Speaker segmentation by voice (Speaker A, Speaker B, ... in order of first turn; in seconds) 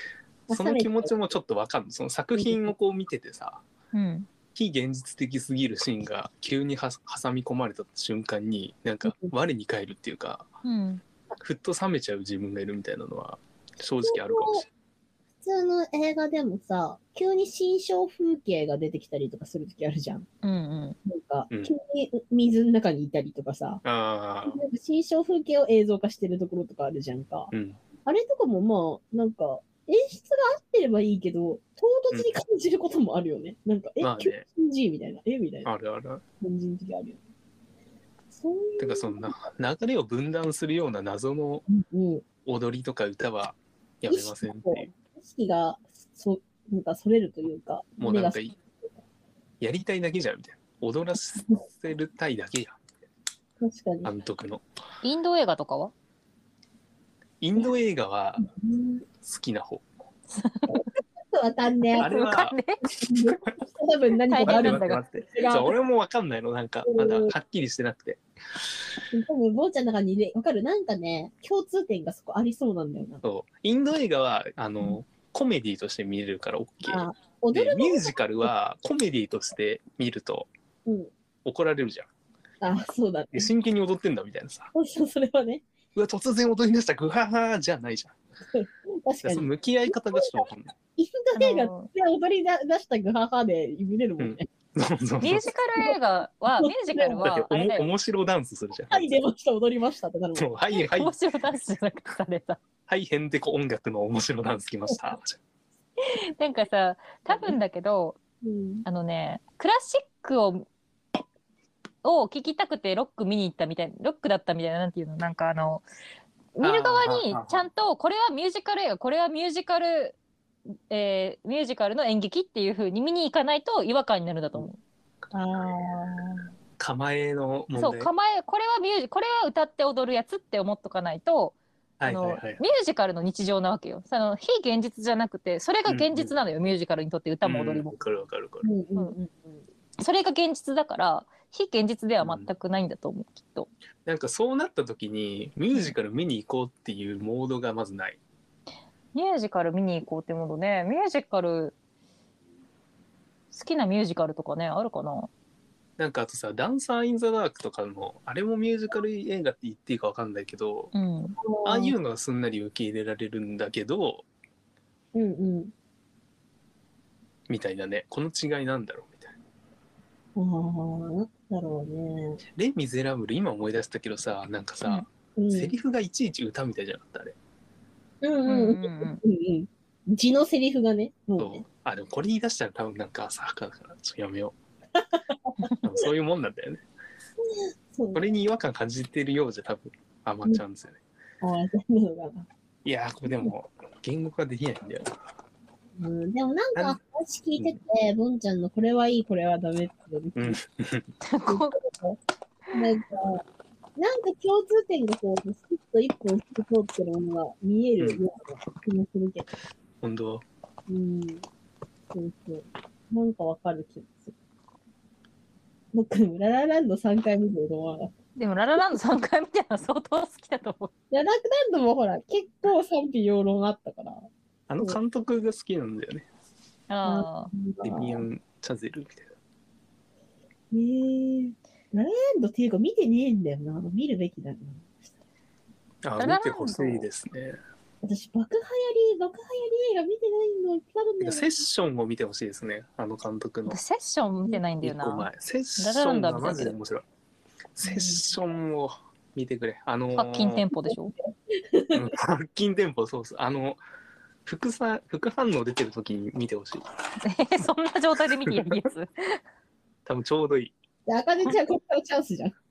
Speaker A: 0.5-1.1, 2.4-2.7, 9.0-9.3, 14.0-14.7, 15.4-20.2, 21.1-23.8, 24.4-27.5, 28.0-35.7, 36.4-37.2, 38.3-39.3, 41.7-42.2, 44.1-48.9, 53.6-54.1, 58.4-59.0, 60.7-62.1, 62.8-65.7, 66.8-67.3, 69.1-73.2, 76.8-78.5, 80.8-81.1, 82.6-83.5, 84.7-85.6, 88.5-90.4, 91.0-94.5, 96.6-97.2, 98.9-100.5, 107.3-107.6, 108.4-108.8, 125.3-126.5, 138.6-139.6, 161.4-161.9, 165.1-165.7, 170.3-172.4, 175.3-175.7, 178.2-181.6, 185.0-185.7, 187.4-188.2, 191.4-192.5, 196.0-200.6, 201.5-202.2, 202.7-203.4, 203.9-209.5, 210.9-211.4, 212.1-214.3, 215.9-218.1, 221.1-224.3, 227.0-228.2, 230.7-234.9, 238.0-241.6, 247.8-248.2, 250.8-252.0, 261.1-262.6
Speaker B: 0.5-3.6, 4.5-10.5, 11.4-14.7, 23.8-24.6, 27.5-27.8, 32.1-32.4, 34.0-34.5, 35.6-36.2, 38.8-41.6, 42.4-44.9, 48.0-48.5, 49.6-52.8, 54.0-54.6, 57.4-58.5, 59.2-59.8, 62.0-62.6, 64.4-68.2, 73.2-80.5, 81.4-82.1, 83.3-84.7, 86.0-88.2, 89.2-90.7, 94.2-95.5, 97.2-99.1, 100.3-101.2, 102.9-105.4, 116.6-117.6, 126.8-128.1, 132.0-132.6, 135.8-136.4, 137.4-138.7, 142.2-142.5, 144.0-148.2, 156.0-160.9, 161.6-164.2, 167.5-169.3, 172.5-177.3, 181.4-184.6, 185.8-186.8, 188.1-191.0, 192.8-195.1, 200.3-201.1, 208.0-208.2, 210.0-210.4, 224.7-226.3, 227.8-229.3, 236.0-237.6, 241.2-243.8, 244.8-247.0, 247.8-250.6, 251.9-253.8, 254.4-256.8, 258.4-258.8, 260.1-260.7
Speaker C: 3.9-4.3, 10.6-11.0, 20.4-21.0, 55.0-55.9, 60.4-60.8, 62.0-62.8, 64.3-65.0, 91.3-91.9, 95.2-97.9, 100.8-102.6, 106.1-108.2, 108.8-110.7, 112.0-115.8, 116.5-120.2, 120.9-124.8, 127.8-137.9, 140.0-143.7, 149.1-151.7, 153.5-155.3, 160.9-161.4, 178.4-179.2, 201.2-201.7, 218.3-220.9, 226.9-227.5, 236.2-237.1, 243.7-245.3, 245.8-246.7, 250.1-251.1, 257.2-259.4